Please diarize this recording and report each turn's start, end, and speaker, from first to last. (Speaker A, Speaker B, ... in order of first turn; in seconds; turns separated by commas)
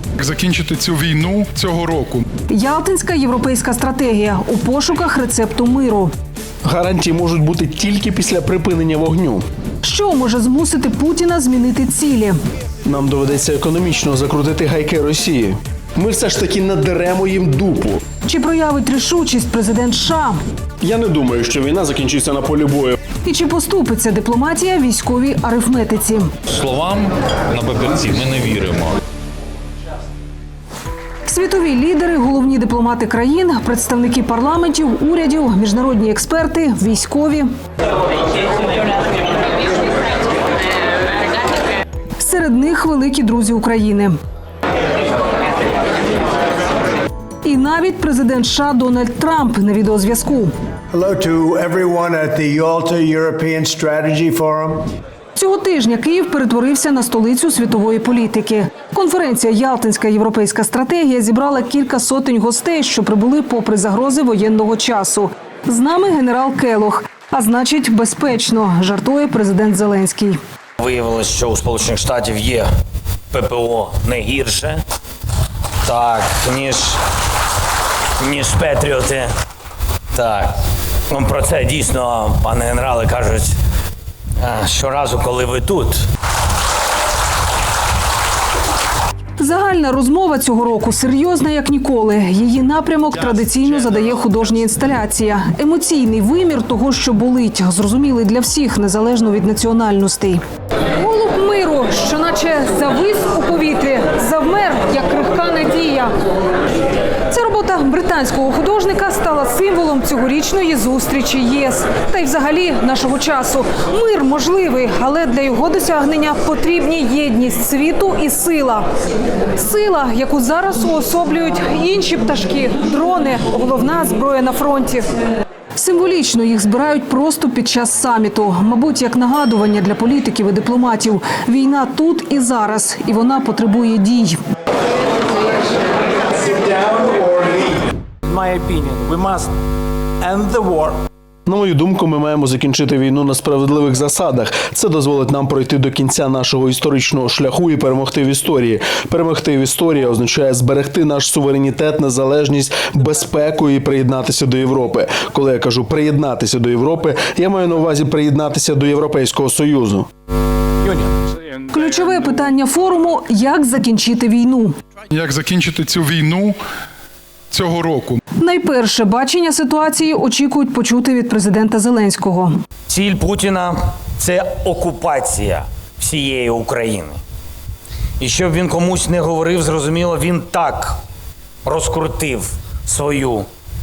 Speaker A: 0.2-2.2, Speaker B: 2.5-6.1, Speaker C: 6.7-9.4, Speaker B: 9.8-12.4, Speaker C: 12.8-18.0, Speaker B: 18.2-20.4, Speaker C: 20.8-23.0, Speaker B: 23.2-26.3, Speaker D: 26.5-29.0, Speaker B: 31.3-37.5, Speaker B: 42.2-44.2, Speaker B: 47.4-50.5, Speaker E: 50.9-54.8, Speaker B: 55.4-70.4, Speaker F: 70.8-72.7, Speaker F: 73.3-74.8, Speaker F: 75.8-77.0, Speaker F: 78.2-79.3, Speaker F: 80.1-80.5, Speaker F: 81.1-83.5, Speaker F: 84.4-86.0, Speaker B: 89.4-100.4, Speaker B: 101.0-106.3, Speaker B: 107.3-118.8, Speaker B: 119.5-125.1, Speaker B: 125.8-134.4, Speaker G: 136.4-137.6, Speaker G: 138.2-139.5, Speaker G: 140.2-141.0, Speaker C: 141.5-160.1, Speaker B: 161.7-164.8, Speaker A: 165.1-166.6, Speaker A: 167.5-168.2, Speaker B: 168.4-172.6, Speaker F: 172.9-177.2, Speaker F: 178.2-181.0, Speaker F: 181.7-183.5